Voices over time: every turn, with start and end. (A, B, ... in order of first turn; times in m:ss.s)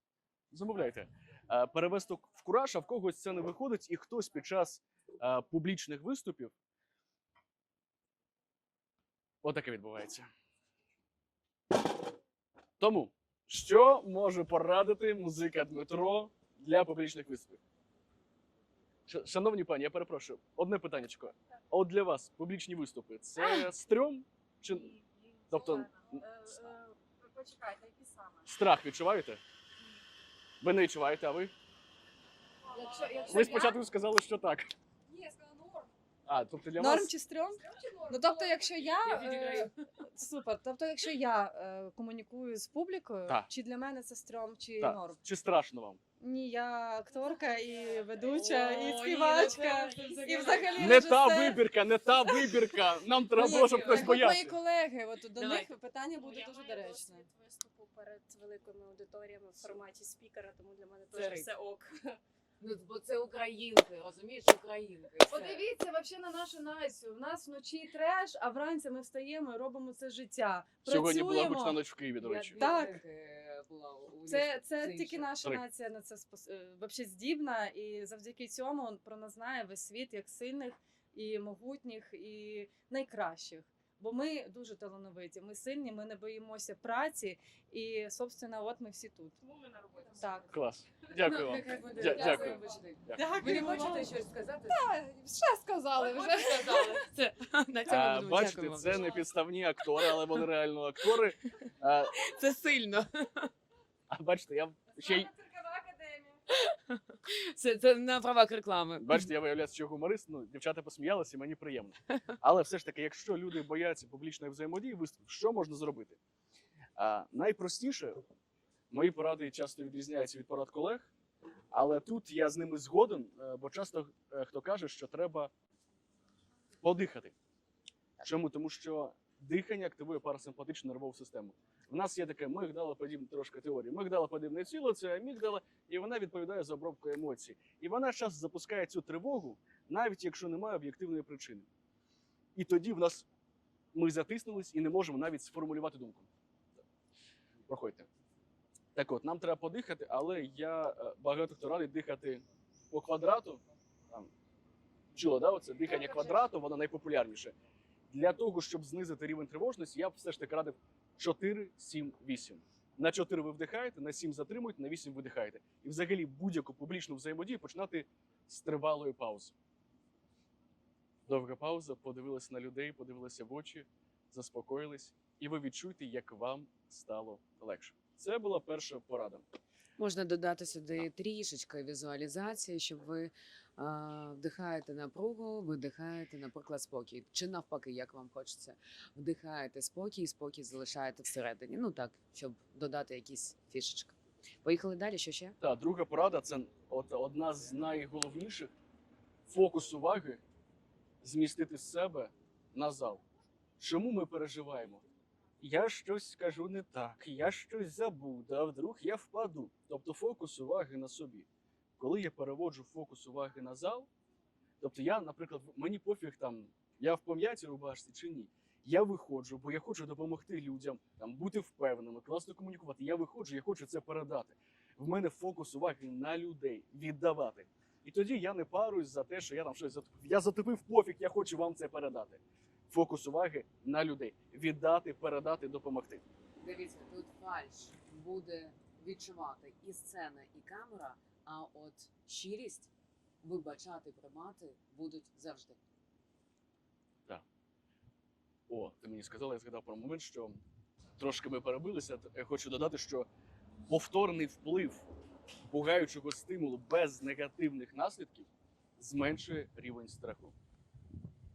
0:00.5-0:06.6 A
0:09.4-0:10.3 A
0:12.8-0:17.6 A
0:19.1-0:25.0 A
0:24.7-0:28.5 B
0:25.5-0:26.7 A
0:28.5-0:29.4 A
0:30.6-0:31.5 A
0:32.7-0:33.8 B
0:32.7-0:33.8 C
0:33.3-0:34.7 A
0:35.1-0:35.9 B
0:36.3-0:37.1 A
0:36.8-0:45.2 C
0:37.6-0:39.7 B
0:44.8-0:46.0 A
0:46.2-0:51.7 C
0:47.5-0:51.4 B
0:50.8-0:54.6 A
0:53.3-0:57.3 C
0:53.7-0:54.3 B
0:55.3-1:02.2 B
1:01.1-1:01.5 D
1:02.6-1:05.6 D
1:05.3-1:11.8 C
1:10.8-1:12.6 A
1:12.2-1:15.3 D
1:12.5-1:13.0 C
1:14.3-1:29.4 C
1:29.4-1:30.5 B
1:30.2-1:30.5 C
1:30.5-1:33.5 A
1:31.2-1:34.9 D
1:31.8-1:32.6 C
1:32.0-1:32.7 B
1:33.1-1:37.1 C
1:36.0-1:39.1 D
1:37.9-1:42.3 A
1:38.8-1:39.3 B
1:42.2-1:43.5 D
1:44.1-1:45.3 A
1:45.2-1:46.4 B
1:46.5-1:49.3 D
1:49.0-1:56.2 A
1:57.0-1:58.2 A
1:58.9-2:01.1 A
2:01.7-2:05.5 A
2:06.8-2:07.4 A
2:08.2-2:21.7 A
2:22.6-2:23.3 A
2:23.9-2:26.3 A
2:27.7-2:28.1 A
2:29.0-2:34.3 A
2:35.1-2:37.6 A
2:38.1-2:49.6 A
2:51.3-2:59.4 A
3:00.0-3:15.6 D
3:15.6-3:18.7 A
3:19.5-3:20.4 A
3:21.2-3:23.2 A
3:23.8-3:25.0 A
3:25.6-3:31.5 A
3:32.0-3:34.1 A
3:34.8-3:56.2 A
3:56.6-4:02.9 D
4:03.4-4:05.8 D
4:08.7-4:10.6 A
4:11.2-4:13.3 A
4:13.9-4:15.1 A
4:15.7-4:20.6 A